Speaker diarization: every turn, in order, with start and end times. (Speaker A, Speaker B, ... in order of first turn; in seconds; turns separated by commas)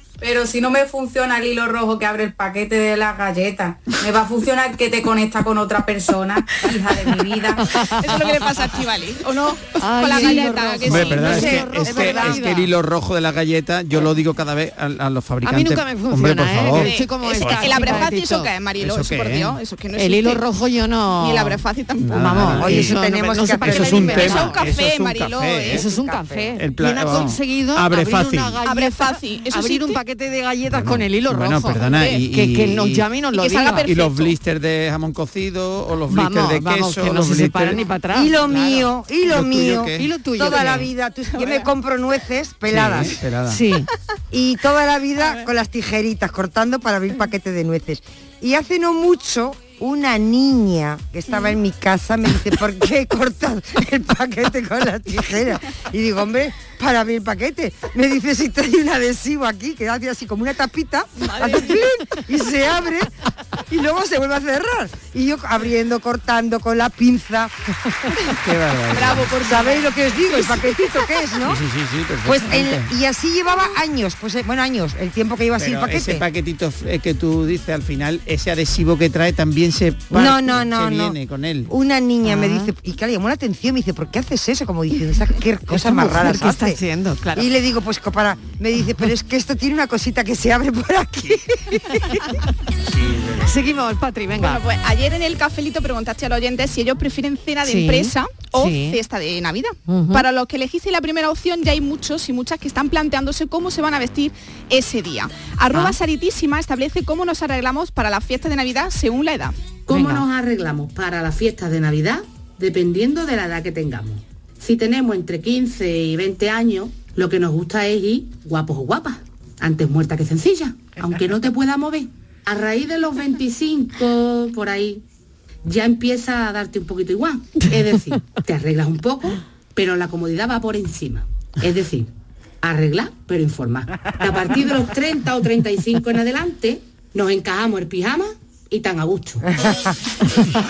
Speaker A: 0.2-7.6, Speaker B: 7.6-8.4, Speaker C: 7.8-11.6, Speaker B: 9.8-12.7, Speaker D: 10.1-18.1, Speaker E: 11.4-12.3, Speaker B: 15.4-18.5, Speaker C: 16.7-20.4, Speaker D: 18.8-19.6, Speaker B: 19.9-24.6, Speaker C: 21.2-22.4, Speaker D: 22.0-22.9, Speaker E: 22.5-24.5, Speaker D: 23.6-25.9, Speaker C: 24.0-25.8, Speaker B: 25.7-33.9, Speaker E: 25.9-26.5, Speaker D: 26.6-28.6, Speaker C: 28.6-30.0, Speaker D: 30.7-33.1, Speaker C: 31.8-32.2, Speaker C: 33.3-34.4, Speaker D: 33.8-37.9, Speaker B: 36.1-38.9, Speaker E: 38.1-43.2, Speaker D: 39.2-40.1, Speaker B: 39.9-40.9, Speaker C: 41.3-41.7, Speaker D: 42.7-43.6, Speaker B: 43.5-43.9, Speaker E: 44.3-63.1, Speaker C: 61.2-61.9, Speaker E: 63.7-67.5, Speaker D: 68.3-69.3, Speaker C: 68.9-70.6, Speaker E: 69.2-71.6, Speaker D: 71.4-72.9, Speaker E: 72.2-76.2, Speaker D: 75.6-81.7, Speaker E: 80.1-81.2, Speaker E: 81.7-86.8, Speaker B: 82.2-82.7, Speaker B: 85.7-87.5, Speaker E: 87.3-91.8, Speaker D: 92.9-93.5, Speaker B: 93.4-94.6, Speaker C: 94.4-109.5, Speaker B: 97.6-99.0, Speaker B: 99.9-100.2, Speaker B: 105.7-106.0, Speaker F: 109.9-125.0, Speaker B: 109.9-110.2, Speaker F: 125.6-132.1, Speaker F: 132.6-139.4, Speaker E: 139.6-139.9